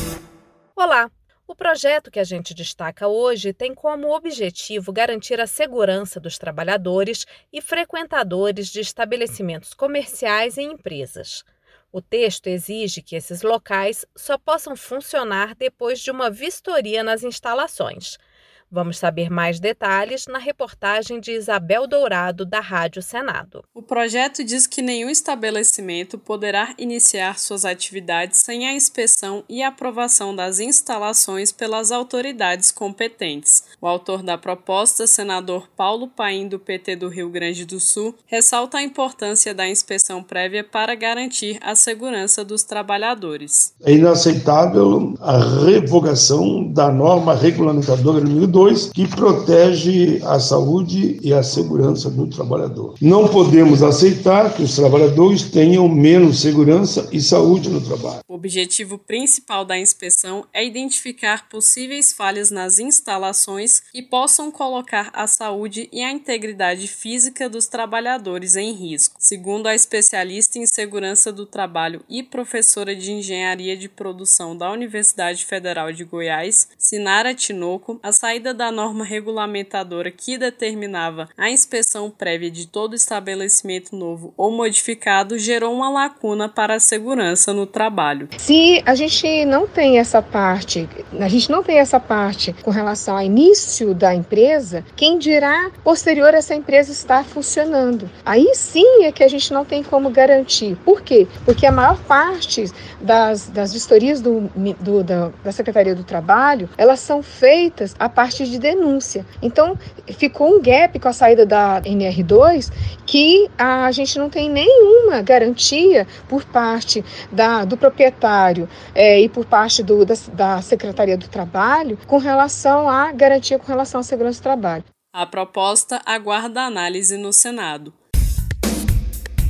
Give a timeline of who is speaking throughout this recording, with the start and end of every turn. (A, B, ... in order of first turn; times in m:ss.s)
0:00.8-0:23.6 A
0:23.7-0:43.7 B
0:43.8-0:58.2 C
0:58.3-1:28.3 B
1:28.4-2:04.8 D
2:05.1-2:08.0 B